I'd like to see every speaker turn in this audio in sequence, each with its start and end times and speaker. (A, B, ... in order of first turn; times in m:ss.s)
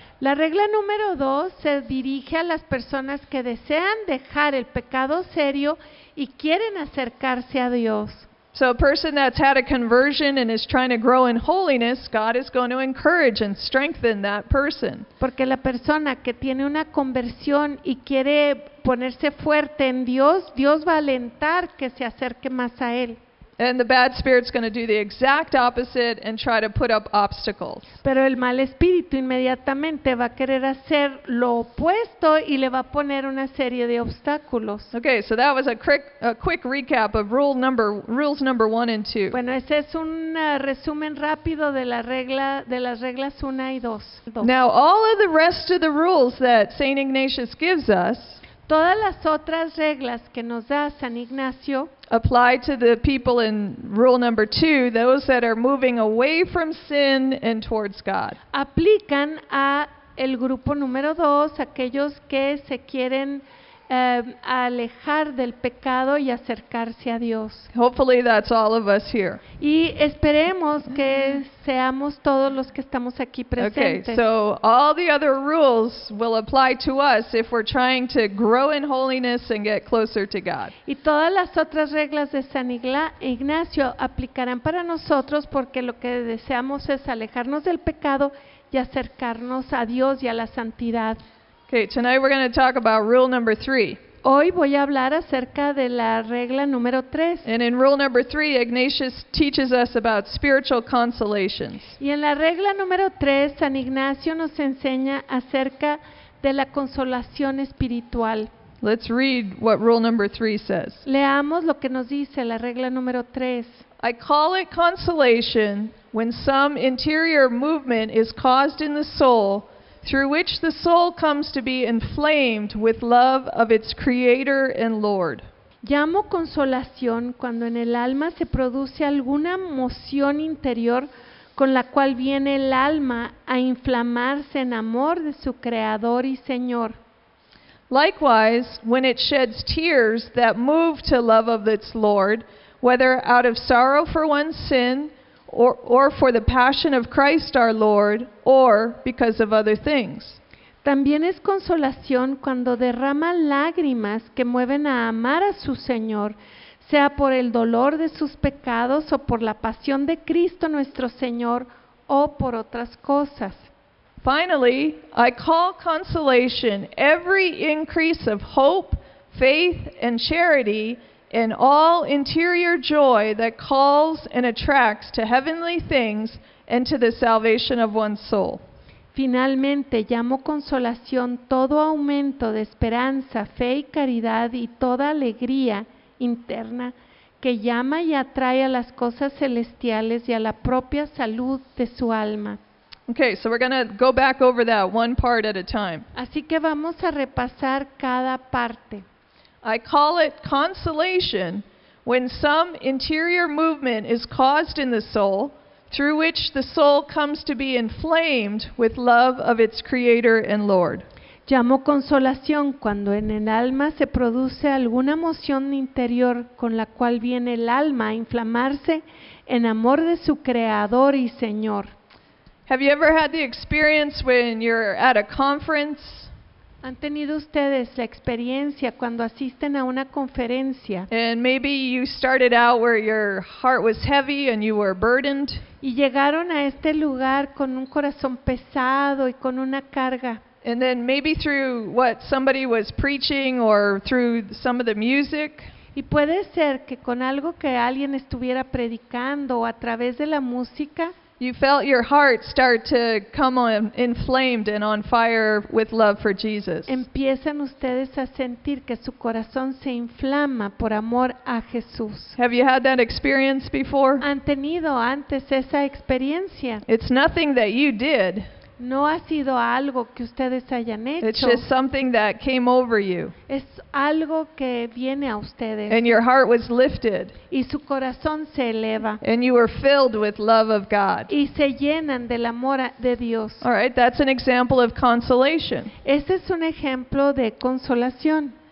0:00.2-0:08.3 A
0:08.5-0:15.1 B
0:15.2-0:23.2 A
0:23.6-0:27.9 B
0:28.0-0:34.9 A
0:34.9-0:39.4 B
0:39.3-0:44.5 A
0:44.4-0:48.4 B
0:48.7-0:51.9 A
0:52.1-0:58.4 B
0:58.5-1:07.7 A
1:07.7-1:09.4 B
1:09.6-1:14.2 A
1:13.6-1:20.7 B
1:20.8-1:31.2 A
1:31.7-1:34.0 B
1:34.2-1:37.5 A
1:37.4-1:42.0 B
1:42.0-1:48.5 A
1:48.8-1:51.0 B
1:51.0-1:53.9 A
1:54.0-2:05.4 B
2:05.8-2:17.0 A
2:17.9-2:30.4 B
2:30.8-2:43.7 A
2:44.2-2:58.6 B
2:59.1-3:12.6 A
3:13.1-3:16.1 B
3:16.1-3:19.0 A
3:19.6-3:31.0 B
3:31.5-3:41.9 A
3:42.7-3:46.3 B
3:46.8-3:51.1 A
3:51.1-3:55.6 B
3:55.8-4:00.4 A
4:00.6-4:05.7 B
4:06.0-4:11.2 A
4:11.4-4:17.0 B
4:16.9-4:22.4 A
4:22.4-4:24.2 B
4:24.2-4:26.8 A
4:26.9-4:28.5 B
4:28.8-4:31.6 A
4:31.2-4:33.4 B
4:33.5-4:36.2 A
4:35.9-4:37.4 B
4:37.5-4:39.2 A
4:39.2-4:41.3 B
4:41.3-4:43.6 A
4:43.6-4:45.9 B
4:46.0-4:48.5 A